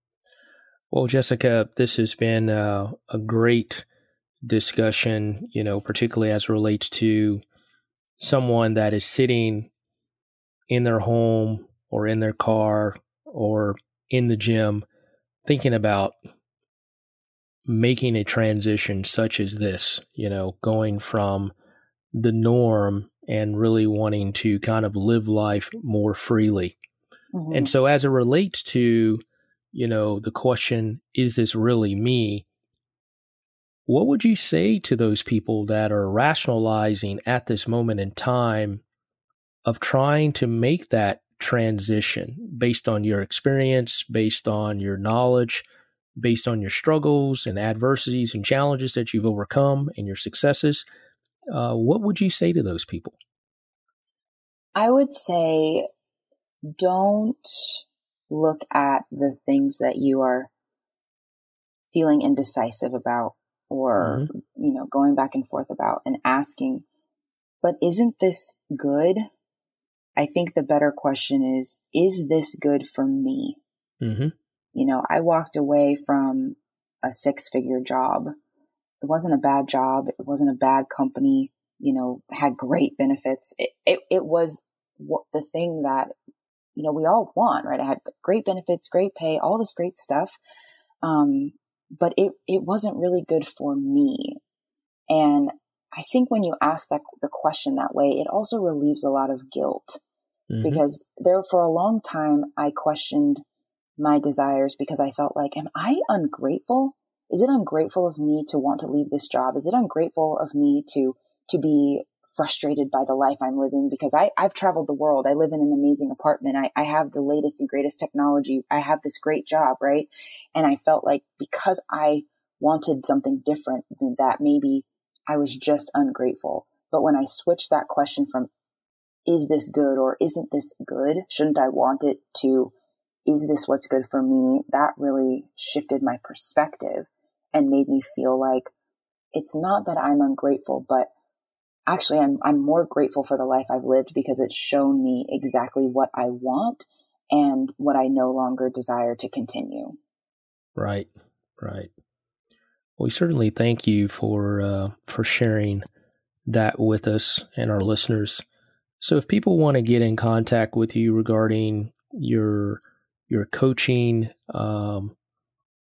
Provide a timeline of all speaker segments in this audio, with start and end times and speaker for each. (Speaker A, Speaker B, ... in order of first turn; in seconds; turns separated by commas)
Speaker A: 0.9-3.9, Speaker A: 4.4-7.4, Speaker A: 8.2-9.7, Speaker A: 10.7-14.9, Speaker A: 15.5-16.2, Speaker A: 17.7-21.5, Speaker A: 22.1-26.8, Speaker B: 27.3-27.7, Speaker A: 27.5-29.2, Speaker A: 29.7-32.5, Speaker A: 33.9-38.8, Speaker A: 39.6-45.6, Speaker A: 46.2-50.8, Speaker A: 51.5-53.1, Speaker B: 54.8-55.9, Speaker B: 56.8-60.5, Speaker B: 61.9-66.8, Speaker A: 64.0-64.3, Speaker B: 67.6-69.3, Speaker B: 70.2-73.6, Speaker A: 74.0-74.3, Speaker B: 74.8-78.3, Speaker B: 79.0-86.1, Speaker B: 86.8-90.4, Speaker B: 91.0-94.4, Speaker B: 95.1-100.0, Speaker A: 100.5-100.8, Speaker B: 100.6-103.4, Speaker B: 104.0-128.5, Speaker B: 129.3-132.7, Speaker B: 133.3-138.7, Speaker B: 139.3-141.1, Speaker B: 141.9-150.0, Speaker A: 150.8-151.9, Speaker A: 153.0-155.8, Speaker A: 156.5-158.4, Speaker A: 159.0-165.2